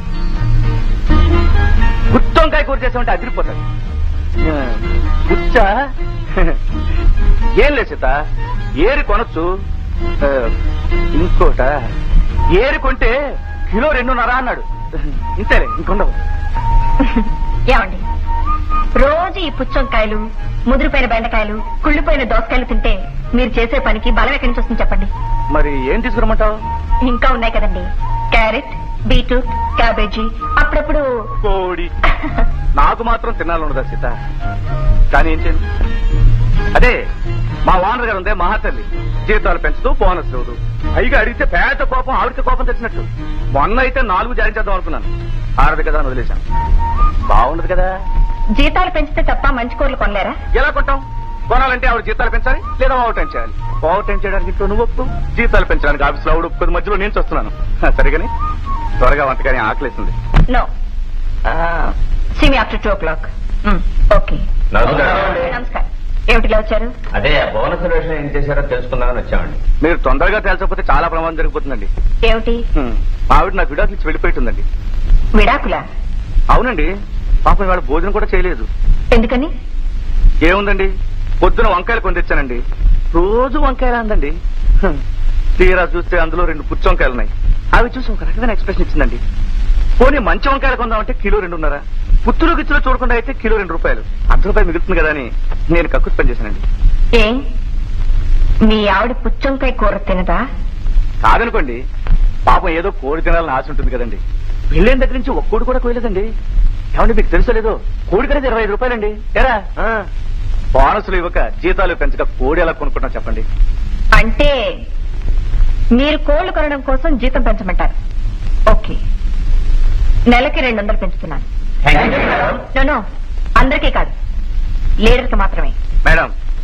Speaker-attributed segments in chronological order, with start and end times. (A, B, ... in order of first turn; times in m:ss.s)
0:02.1-0:03.6 A
0:04.4-0:05.8 A
0:07.6-0:08.2 A
0:08.8-0:09.5 A
0:10.2-0:10.5 A
0:11.2-0:11.8 A
0:12.5-0:13.1 A
0:13.7-0:16.2 A
0:17.0-0:18.0 B
0:19.0-0:25.1 B
0:25.5-0:26.6 A
0:27.1-0:31.0 B
0:31.4-0:31.9 A
0:32.8-0:34.1 A
0:35.1-0:35.6 A
0:36.7-0:37.0 A
0:37.6-0:46.4 A
0:47.3-0:47.9 A
0:48.6-0:50.4 B
0:50.5-0:58.3 A
0:59.0-1:00.1 A
1:02.4-1:04.4 B
1:04.8-1:05.3 C
1:05.2-1:06.9 B
1:07.2-1:09.6 C
1:09.8-1:11.9 A
1:12.3-1:12.6 B
1:12.8-1:14.6 A
1:15.4-1:15.8 B
1:16.5-1:16.9 A
1:17.4-1:18.7 A
1:19.1-1:19.5 B
1:20.4-1:25.0 A
1:25.6-1:29.2 A
1:30.0-1:36.6 A
1:38.7-1:40.4 B
1:41.2-1:41.8 A
1:42.5-1:46.3 A
1:46.9-1:50.0 A
1:50.7-1:53.4 A
1:54.2-1:54.6 B
1:56.0-1:57.9 B
1:58.7-1:59.0 B
2:00.3-2:01.5 B
2:01.9-2:02.4 C
2:02.7-2:03.0 B
2:03.6-2:04.1 B
2:05.0-2:05.8 B
2:06.0-2:06.3 A